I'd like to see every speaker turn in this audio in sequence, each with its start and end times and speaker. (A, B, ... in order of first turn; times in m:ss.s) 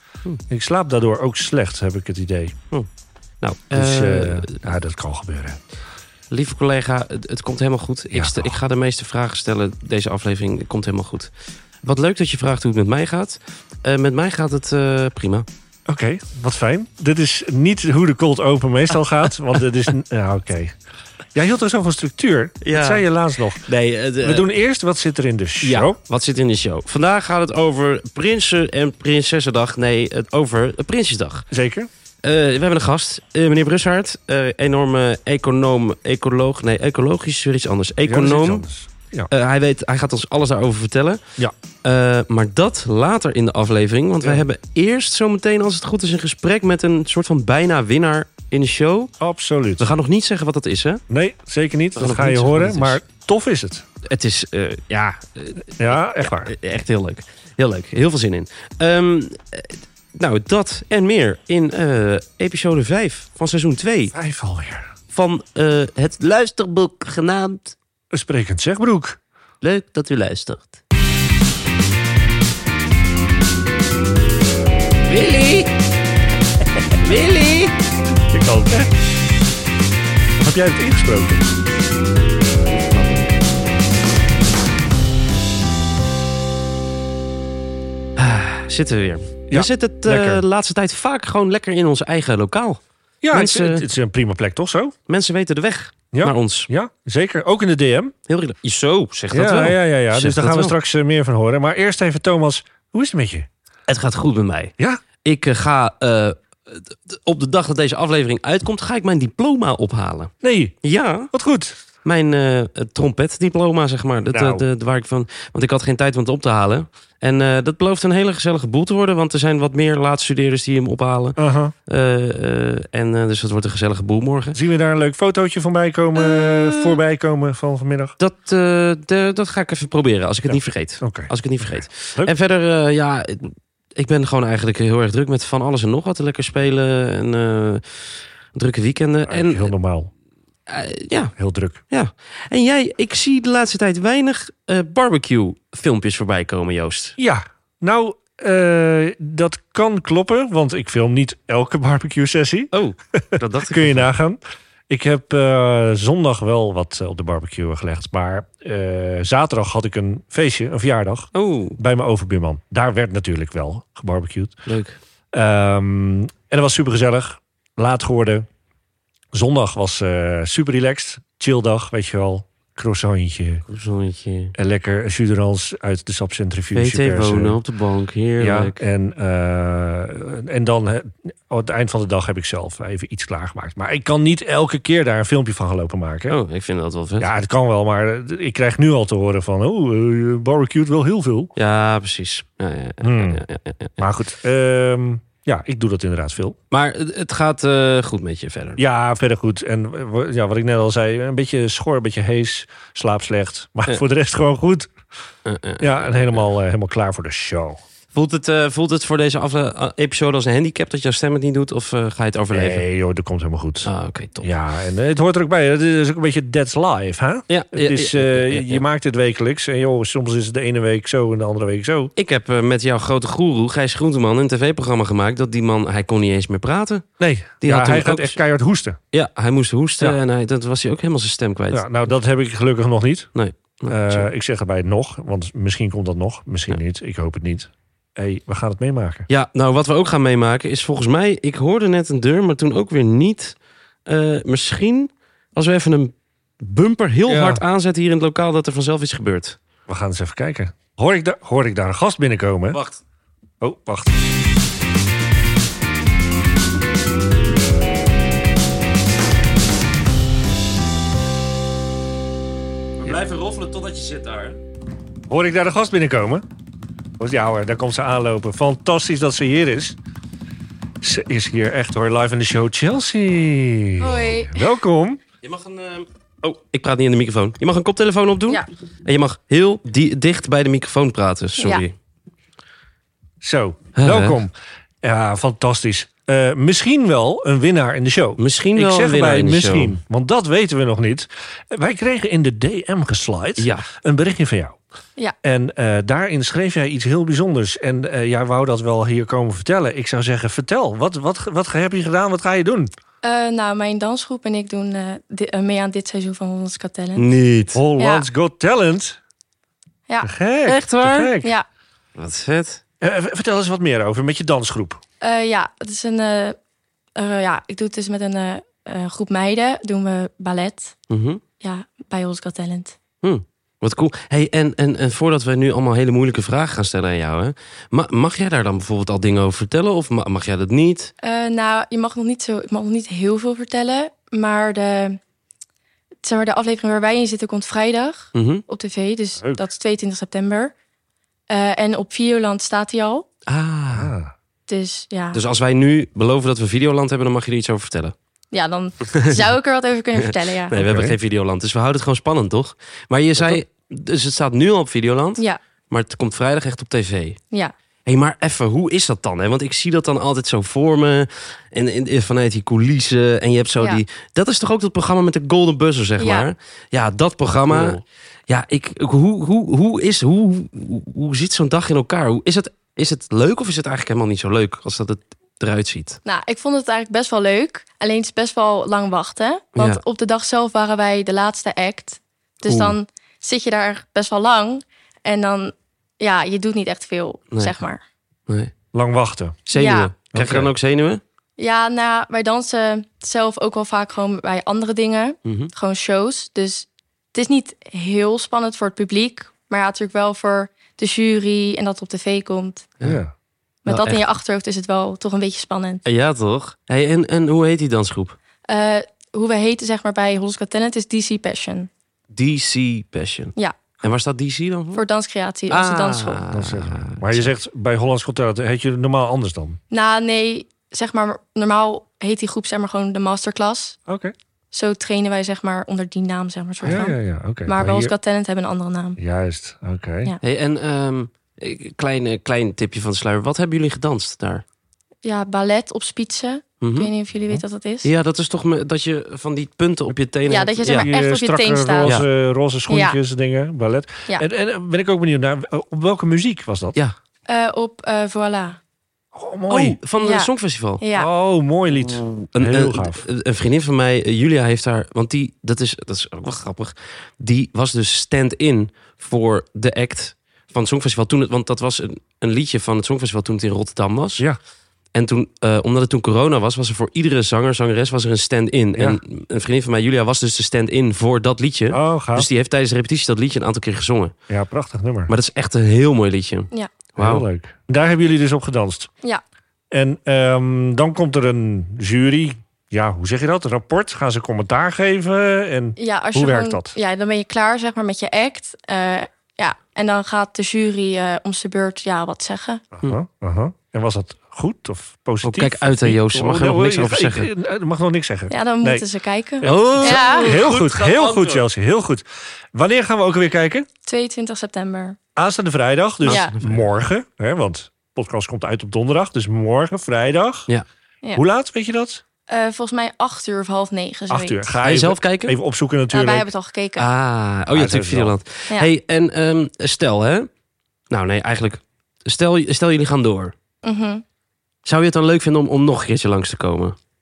0:00.5-0:02.5 A
0:03.4-0:04.6 B
0:03.7-0:05.6 A
0:06.3-0:11.3 B
0:08.1-0:08.6 A
0:11.8-0:15.4 B
0:15.9-0:20.7 A
0:21.3-0:23.7 A
0:22.6-0:23.0 B
0:23.6-0:24.5 B
0:24.2-0:26.0 A
0:25.6-0:31.4 B
0:31.5-0:31.9 A
0:32.2-0:38.6 B
0:38.0-0:39.3 A
0:39.3-0:41.2 B
0:41.8-0:49.1 B
0:44.2-0:44.4 A
0:49.2-0:49.9 A
0:49.8-0:51.0 B
0:51.1-0:53.8 A
0:52.0-0:53.0 B
0:54.0-1:04.2 B
0:55.8-0:56.5 A
1:04.1-1:04.9 A
1:05.1-1:07.8 B
1:08.1-1:09.2 A
1:09.6-1:10.8 B
1:15.0-1:15.7 B
1:17.0-1:17.8 B
1:18.3-1:18.9 A
1:20.4-1:21.4 A
1:22.6-1:23.3 B
1:28.2-1:32.8 B
1:29.5-1:30.4 A
1:33.2-1:34.9 A
1:33.3-1:33.8 B
1:35.1-1:36.7 B
1:36.1-1:38.1 A
1:38.3-1:40.7 B
1:39.3-1:43.5 A
1:43.9-1:44.7 B
1:45.2-1:50.3 B
1:50.4-1:50.8 A
1:50.8-1:51.3 B
1:51.3-1:51.7 A
1:52.0-2:04.6 B
1:54.3-1:54.6 A
2:01.4-2:01.7 A
2:04.5-2:08.1 A
2:06.2-2:06.9 B
2:08.2-2:19.7 B
2:10.5-2:12.3 A
2:19.3-2:20.1 A
2:20.7-2:21.3 B
2:21.4-2:21.8 A
2:21.9-2:27.2 B
2:27.2-2:44.6 A
2:32.7-2:34.1 B
2:41.3-2:41.8 B
2:44.6-2:45.0 B
2:45.3-2:48.4 A
2:49.3-2:53.6 A
2:53.7-2:54.5 B
2:54.5-2:57.6 A
2:56.7-2:58.8 B
2:58.4-3:06.4 A
3:06.3-3:07.3 B
3:07.2-3:11.5 A
3:11.6-3:14.0 B
3:13.0-3:13.4 A
3:14.0-3:16.6 A
3:16.7-3:18.8 B
3:18.8-3:24.9 A
3:25.4-3:26.4 B
3:25.8-3:27.8 A
3:28.1-3:32.8 B
3:32.5-3:33.9 A
3:33.8-3:34.5 B
3:34.4-3:42.1 A
3:37.5-3:38.8 B
3:42.2-3:47.0 B
3:47.2-3:49.0 A
3:47.6-3:48.4 B
3:49.1-3:51.8 B
3:51.7-3:53.3 A
3:53.3-3:54.3 B
3:53.9-3:59.3 A
3:59.3-4:09.6 B
4:07.2-4:07.6 A
4:09.9-4:12.8 A
4:12.7-4:13.0 B
4:13.6-4:14.2 A
4:23.0-4:24.6 B
4:25.3-4:26.4 A
4:27.2-4:30.0 A
4:31.0-4:35.2 A
4:34.0-4:34.7 C
4:35.4-4:41.9 B
4:41.6-4:41.8 C
4:43.4-4:54.8 A
4:44.0-4:44.4 B
4:48.4-4:50.0 B
4:53.6-4:53.8 B
4:55.4-5:02.9 A
5:03.2-5:07.3 C
5:07.2-5:07.8 B
5:07.7-5:09.2 A
5:08.0-5:08.3 C
5:10.2-5:11.5 A
5:10.6-5:11.3 B
5:12.2-5:12.8 B
5:13.0-5:15.0 A
5:15.2-5:16.6 C
5:17.2-5:20.9 C
5:21.1-5:21.4 B
5:21.6-5:22.9 C
5:23.2-5:31.1 B
5:31.2-5:35.2 C
5:36.2-5:40.7 C
5:38.3-5:38.6 B
5:41.5-5:43.2 C
5:43.5-5:44.1 B
5:43.9-5:44.3 A
5:44.7-5:45.4 C
5:45.3-5:48.1 B
5:48.5-5:50.8 C
5:49.1-5:49.4 B
5:50.1-5:57.4 B
5:50.8-5:51.1 A
5:58.0-6:16.2 B
6:06.2-6:06.5 C
6:07.7-6:08.0 A
6:16.2-6:28.0 C
6:19.8-6:20.0 B
6:22.6-6:23.0 B
6:27.5-6:27.8 B
6:28.9-6:29.6 A
6:29.7-6:31.2 B
6:29.7-6:30.1 C
6:30.3-6:30.7 A
6:31.6-6:42.9 C
6:35.4-6:35.7 B
6:43.0-6:43.3 A
6:43.8-6:46.0 C
6:43.9-6:44.2 B
6:46.0-6:48.4 B
6:48.7-6:51.9 C
6:52.3-6:55.0 B
6:54.9-6:56.4 C
6:55.7-6:57.5 B
6:56.5-6:59.8 A
6:59.9-7:04.0 C
7:04.1-7:04.3 A
7:04.7-7:09.2 C
7:06.8-7:08.1 A
7:09.2-7:10.3 A
7:10.4-7:14.6 B
7:15.2-7:18.1 C
7:16.8-7:17.1 B
7:18.0-7:21.1 B
7:20.5-7:22.2 C
7:20.9-7:27.0 A
7:22.0-7:22.3 B
7:22.9-7:23.2 C
7:27.5-7:28.8 C
7:29.3-7:30.0 A
7:29.7-7:31.0 B
7:30.2-7:31.3 C
7:31.1-7:33.2 A
7:31.9-7:44.4 B
7:45.1-7:54.3 B
7:48.9-7:49.2 A
7:51.9-7:52.5 A
7:54.5-7:55.3 A
7:55.3-7:57.4 B
7:57.2-7:59.1 A
7:59.9-8:06.9 A
8:06.0-8:12.8 C
8:13.0-8:19.0 A
8:15.4-8:17.5 B
8:18.5-8:20.6 C
8:19.6-8:23.9 A
8:19.6-8:21.7 B
8:24.0-8:25.2 C
8:25.4-8:30.7 A
8:26.2-8:26.5 C
8:26.2-8:26.8 B
8:31.3-8:32.2 A
8:32.5-8:34.8 C
8:34.3-8:36.5 A
8:34.8-8:35.5 B
8:36.1-8:37.1 C
8:37.0-8:40.5 B
8:37.7-8:38.4 A
8:41.1-8:43.5 B
8:43.8-8:44.2 C
8:44.8-8:47.0 B